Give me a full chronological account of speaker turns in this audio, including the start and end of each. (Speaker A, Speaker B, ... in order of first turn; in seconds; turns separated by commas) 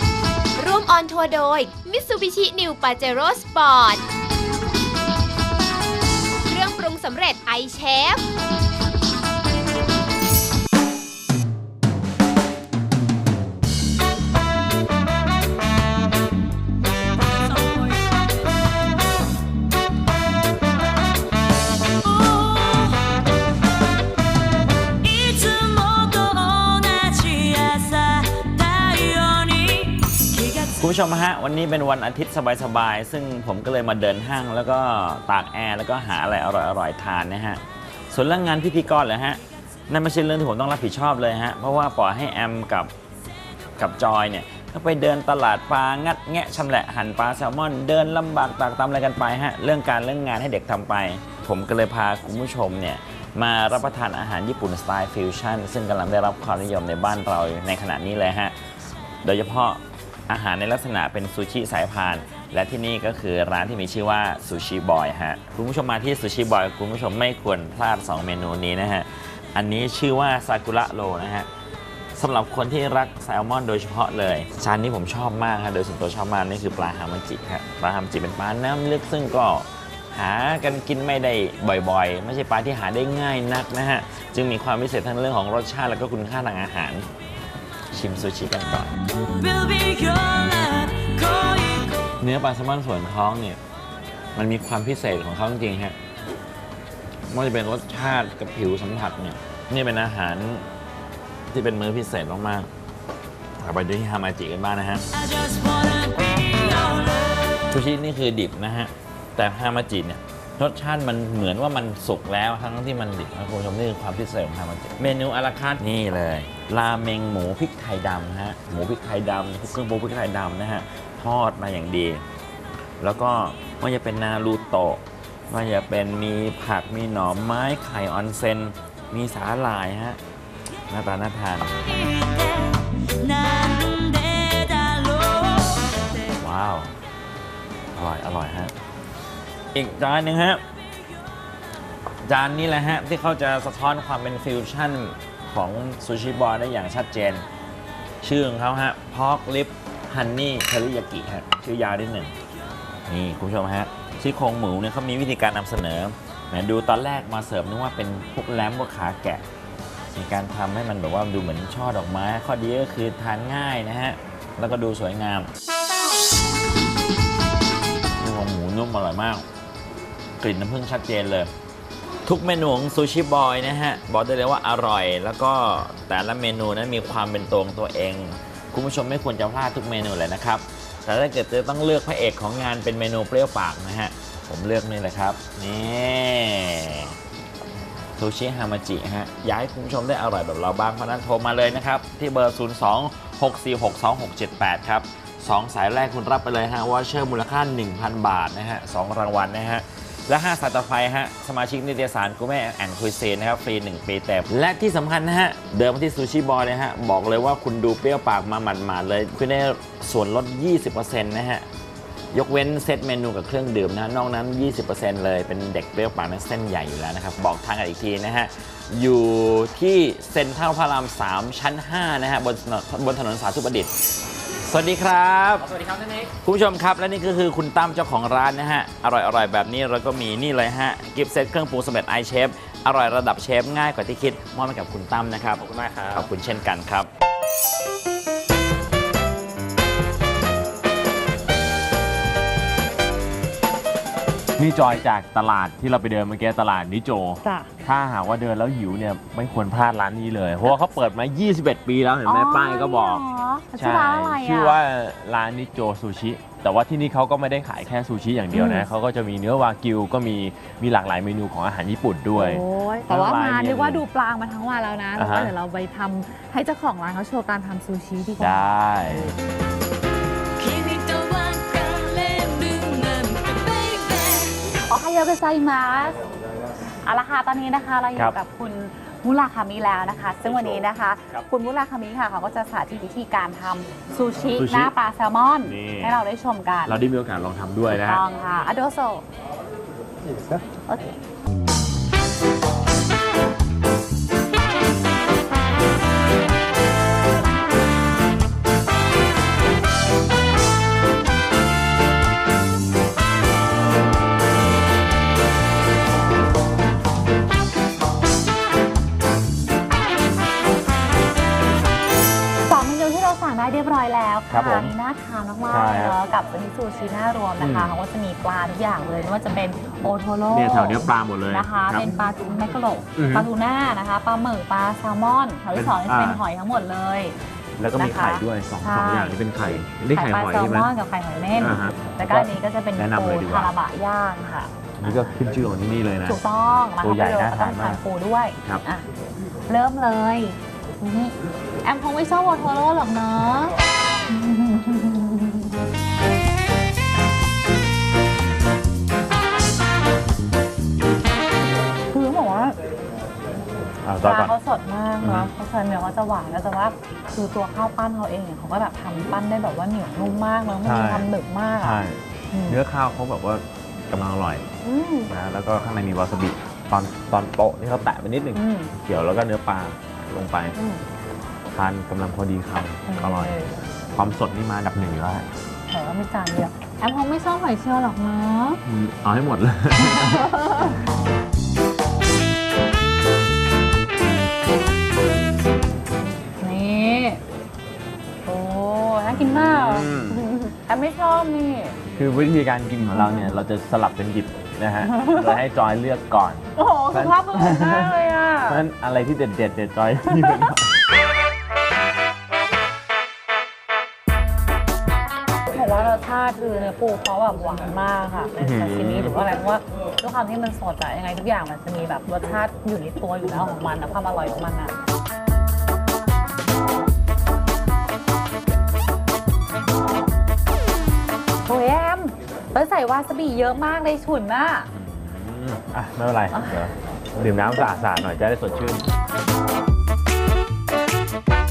Speaker A: 0.6-4.0, Speaker A: 6.5-8.2, Speaker B: 17.3-18.2, Speaker B: 22.0-23.2, Speaker B: 25.0-30.8, Speaker C: 30.8-42.9, Speaker C: 43.8-58.6, Speaker C: 59.2-71.5, Speaker C: 72.2-87.1, Speaker C: 87.9-89.0, Speaker B: 89.3-92.0, Speaker C: 92.2-93.6, Speaker C: 94.4-96.0, Speaker C: 97.3-100.7, Speaker C: 101.5-102.7, Speaker C: 103.6-105.0, Speaker B: 105.1-107.7, Speaker C: 107.7-122.2, Speaker C: 123.0-130.2, Speaker C: 130.9-131.8, Speaker B: 131.8-136.3, Speaker C: 136.4-136.9, Speaker C: 137.9-138.7, Speaker C: 139.7-140.6, Speaker C: 142.2-147.4, Speaker C: 148.2-152.3, Speaker C: 153.1-159.4, Speaker C: 160.1-165.5, Speaker C: 168.2-169.4, Speaker C: 170.4-171.5, Speaker C: 172.3-187.2, Speaker C: 188.2-211.6, Speaker C: 212.3-223.9, Speaker C: 224.7-237.1, Speaker D: 225.8-226.3, Speaker D: 235.6-236.3, Speaker D: 244.6-253.2, Speaker E: 247.4-247.7, Speaker E: 252.3-254.8, Speaker D: 253.8-264.0, Speaker E: 258.5-258.9, Speaker E: 262.4-269.3, Speaker D: 265.2-265.5, Speaker D: 268.4-269.3, Speaker B: 270.6-274.6, Speaker E: 274.8-276.2, Speaker E: 277.1-287.0, Speaker D: 284.6-284.9, Speaker D: 285.6-286.2, Speaker D: 286.9-288.2, Speaker E: 287.9-289.2, Speaker E: 290.9-291.2, Speaker E: 312.6-327.4, Speaker D: 314.5-314.9, Speaker D: 315.7-316.1, Speaker D: 317.6-317.9, Speaker D: 320.5-322.1, Speaker D: 323.2-323.5, Speaker D: 325.7-326.4, Speaker D: 327.8-330.9, Speaker E: 327.9-329.4, Speaker E: 330.1-335.2, Speaker D: 331.6-333.7, Speaker D: 335.0-336.4, Speaker E: 336.2-339.1, Speaker D: 337.0-338.0, Speaker E: 339.7-343.8, Speaker E: 344.3-345.8, Speaker E: 352.1-352.8, Speaker D: 354.1-354.6, Speaker E: 354.2-362.8, Speaker D: 355.2-355.5, Speaker D: 360.9-364.6, Speaker E: 364.8-365.3, Speaker D: 365.3-370.8, Speaker E: 368.5-368.9, Speaker E: 370.8-371.0, Speaker D: 371.7-373.6, Speaker E: 373.1-373.8, Speaker D: 374.1-375.5, Speaker E: 375.9-378.8, Speaker D: 378.9-380.6, Speaker E: 380.0-380.9, Speaker E: 386.4-387.4, Speaker E: 388.5-392.0, Speaker D: 389.3-390.4, Speaker D: 392.1-400.9, Speaker E: 393.1-393.5, Speaker E: 395.0-395.6, Speaker E: 396.8-398.8, Speaker E: 400.3-400.7, Speaker E: 405.7-414.9, Speaker D: 408.6-409.4, Speaker E: 421.7-424.9, Speaker D: 424.9-429.1, Speaker E: 426.5-426.9